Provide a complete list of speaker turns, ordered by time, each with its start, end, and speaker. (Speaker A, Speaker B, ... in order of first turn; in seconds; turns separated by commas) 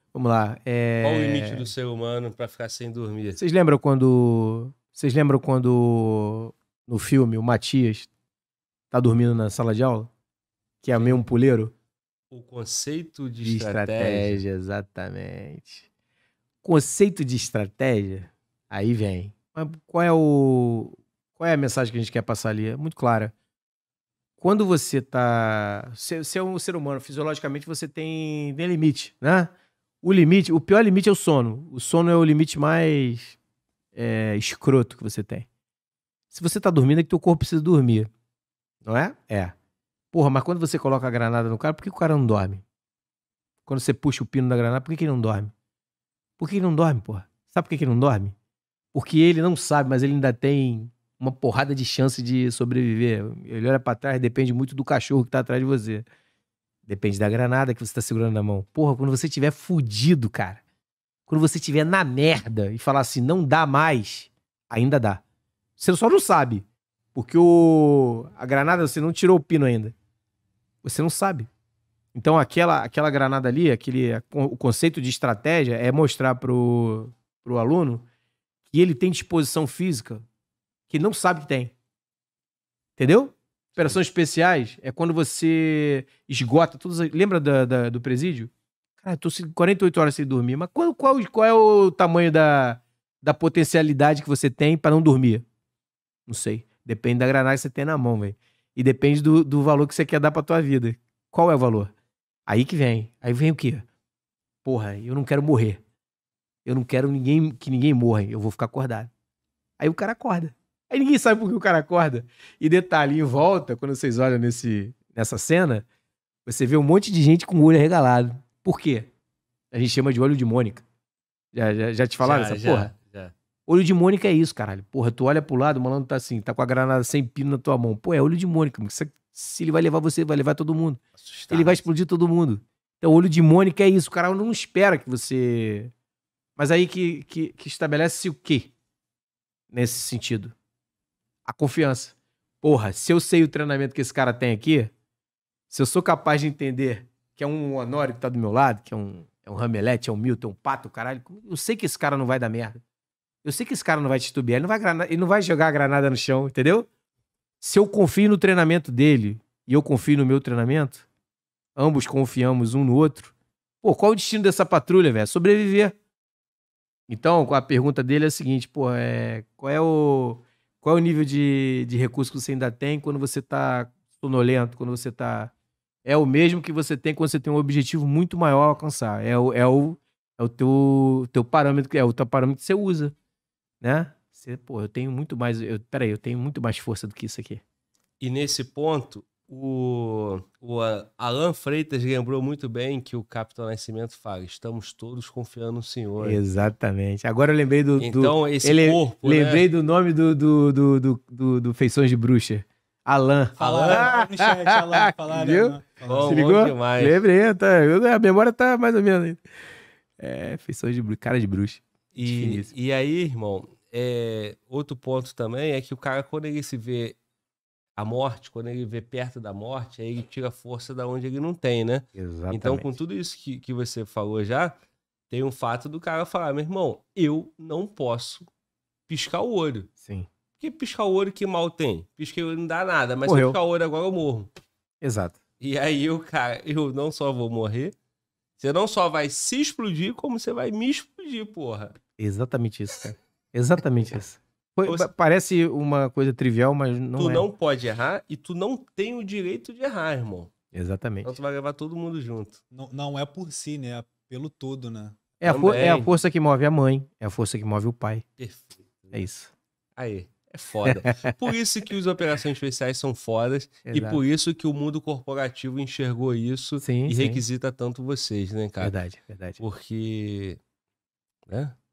Speaker A: 0.1-1.7, Speaker B: 1.0-3.4, Speaker A: 3.4-8.1, Speaker A: 8.9-10.1, Speaker A: 10.8-11.7, Speaker B: 10.9-11.2, Speaker B: 12.3-14.4, Speaker A: 13.4-15.8, Speaker A: 16.6-23.3, Speaker A: 24.4-29.5, Speaker A: 30.0-33.4, Speaker A: 33.9-35.5, Speaker A: 36.3-38.1, Speaker A: 38.8-39.5, Speaker A: 40.1-42.6, Speaker A: 43.6-45.5, Speaker A: 46.4-48.3, Speaker A: 48.9-56.0, Speaker A: 56.9-60.6, Speaker A: 61.3-65.2, Speaker A: 65.8-69.9, Speaker A: 70.8-71.5, Speaker A: 72.1-78.0, Speaker A: 78.7-80.2, Speaker A: 80.9-81.7, Speaker A: 83.0-95.4, Speaker A: 96.3-101.9, Speaker A: 102.5-103.8, Speaker A: 104.6-105.8, Speaker A: 106.6-109.1, Speaker A: 109.8-115.8, Speaker A: 116.5-119.1, Speaker A: 119.7-120.8, Speaker A: 121.5-122.9, Speaker B: 122.2-123.3, Speaker A: 123.7-135.9, Speaker B: 131.2-131.8, Speaker A: 136.6-138.7, Speaker A: 139.7-140.5, Speaker A: 141.4-144.9, Speaker A: 145.7-152.8, Speaker A: 153.4-156.9, Speaker A: 157.6-161.1, Speaker A: 161.8-165.9, Speaker A: 167.1-175.5, Speaker A: 176.0-183.1, Speaker A: 183.8-187.6, Speaker B: 188.2-196.4, Speaker A: 196.2-209.4, Speaker B: 198.0-199.7, Speaker C: 203.6-206.4, Speaker B: 203.6-204.1, Speaker B: 206.0-207.2, Speaker A: 210.2-212.7, Speaker B: 212.1-217.2, Speaker B: 217.9-224.8, Speaker A: 222.1-222.9, Speaker B: 225.3-228.5, Speaker B: 229.1-229.9, Speaker A: 230.0-230.3, Speaker B: 230.6-234.5, Speaker A: 233.2-233.6, Speaker A: 235.0-235.4, Speaker B: 235.6-237.9, Speaker B: 238.6-241.9, Speaker A: 242.2-247.5, Speaker B: 247.2-250.5, Speaker A: 250.7-251.3, Speaker B: 251.2-252.6, Speaker C: 252.7-255.2, Speaker A: 255.4-258.2, Speaker B: 255.4-256.1, Speaker B: 258.4-259.2, Speaker A: 259.1-259.5, Speaker B: 259.9-268.9, Speaker A: 260.9-261.3, Speaker A: 263.9-264.2, Speaker A: 266.8-267.4, Speaker A: 268.8-269.6, Speaker B: 269.6-270.6, Speaker B: 271.5-271.7